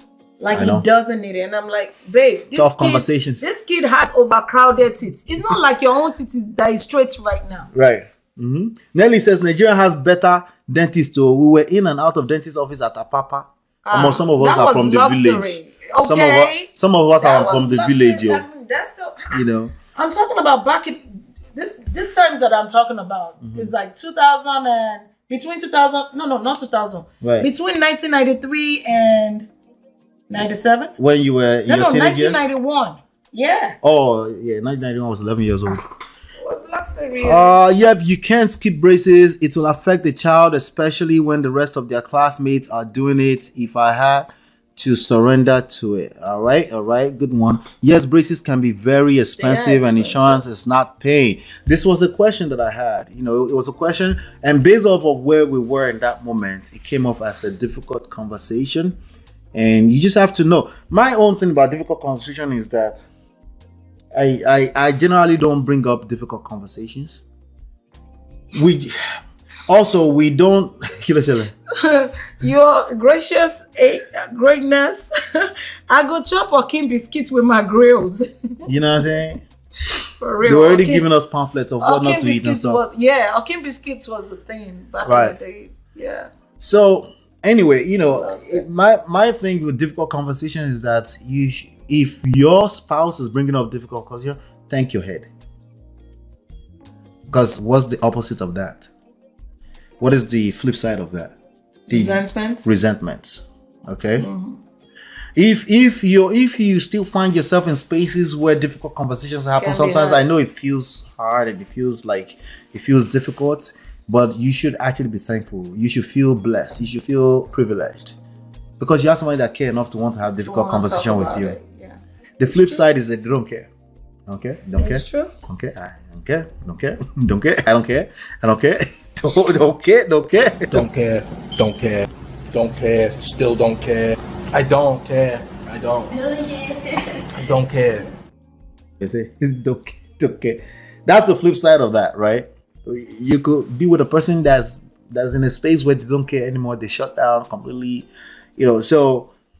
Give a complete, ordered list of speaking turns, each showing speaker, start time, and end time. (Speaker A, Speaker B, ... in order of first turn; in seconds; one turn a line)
Speaker A: 0.4-7.7
Speaker B: 0.5-0.8
Speaker B: 2.5-3.5
Speaker B: 7.7-18.4
Speaker A: 13.8-19.4
Speaker B: 19.3-19.7
Speaker A: 19.9-21.0
Speaker A: 21.5-29.5
Speaker B: 23.4-23.7
Speaker B: 27.2-27.5
Speaker A: 30.3-30.9
Speaker B: 31.0-32.5
Speaker A: 31.7-33.8
Speaker B: 33.8-35.8
Speaker A: 36.4-37.6
Speaker B: 37.2-59.0
Speaker A: 49.4-50.4
Speaker B: 59.5-63.0
Speaker B: 64.1-67.2
Speaker B: 68.5-68.9
Speaker B: 69.7-71.5
Speaker A: 71.8-78.6
Speaker B: 78.7-79.4
Speaker A: 80.2-81.1
Speaker B: 80.4-82.8
Speaker A: 81.8-86.3
Speaker B: 85.0-85.4
Speaker B: 86.6-95.3
Speaker A: 88.1-88.6
Speaker B: 97.3-98.9
Speaker B: 100.0-101.3
Speaker A: 101.9-102.7
Speaker B: 101.9-104.3
Speaker A: 104.2-104.6
Speaker B: 105.3-118.1
Speaker A: 109.6-110.2
Speaker B: 118.8-121.6
Speaker A: 120.4-122.8
Speaker B: 122.4-123.7
Speaker B: 124.3-130.8
Speaker A: 124.8-125.3
Speaker C: 130.7-136.1
Speaker A: 136.1-137.2
Speaker C: 137.3-138.1
Speaker B: 139.0-149.3